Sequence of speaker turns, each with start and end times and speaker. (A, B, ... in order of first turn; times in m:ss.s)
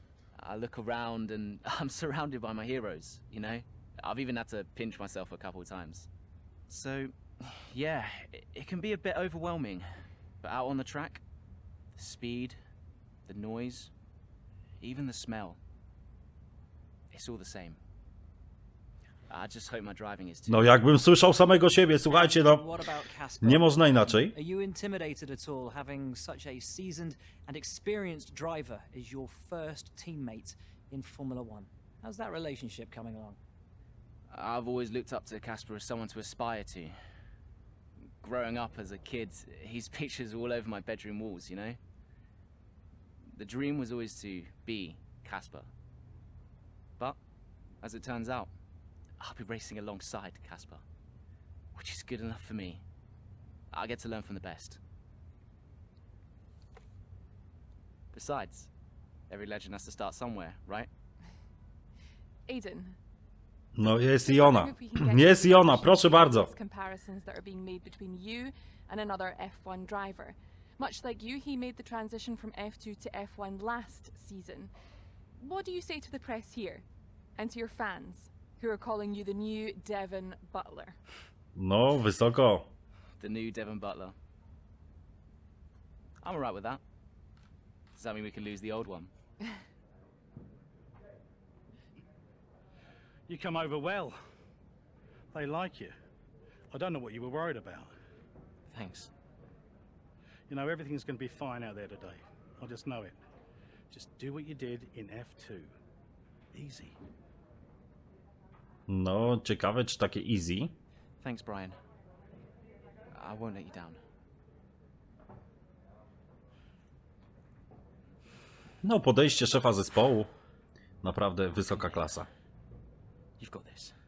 0:00.4-0:06.1 A
0:06.7-0:09.8 A
0:10.4-0:11.2 A
0:11.9-0:12.6 A
0:13.2-0:13.9 A
0:14.8-0:15.6 A
0:17.1-0:17.8 A
0:19.3-0:20.6 A
0:20.5-0:22.6 B
0:22.1-0:33.4 C
0:23.4-0:24.3 B
0:34.3-0:37.0 A
0:38.2-0:41.8 A
0:43.3-0:45.7 A
0:47.8-0:48.5 A
0:49.2-0:50.8 A
0:51.7-0:52.8 A
0:53.7-0:54.8 A
0:58.1-0:58.7 A
0:59.3-1:00.9 A
1:02.5-1:03.0 D
1:03.8-1:06.5 B
1:04.2-1:14.7 D
1:15.4-1:16.8 D
1:17.4-1:21.0 D
1:21.5-1:22.7 B
1:23.2-1:24.1 A
1:26.2-1:26.8 A
1:27.9-1:29.1 A
1:33.3-1:34.2 E
1:35.3-1:35.9 E
1:36.7-1:37.9 E
1:38.7-1:39.1 A
1:40.5-1:43.2 E
1:43.9-1:45.7 E
1:46.5-1:47.0 E
1:48.9-1:50.7 B
1:51.2-1:51.8 A
1:53.1-1:54.0 A
1:58.8-2:00.3 B
2:01.0-2:02.3 B
2:01.7-2:02.0 A
2:03.4-2:03.9 A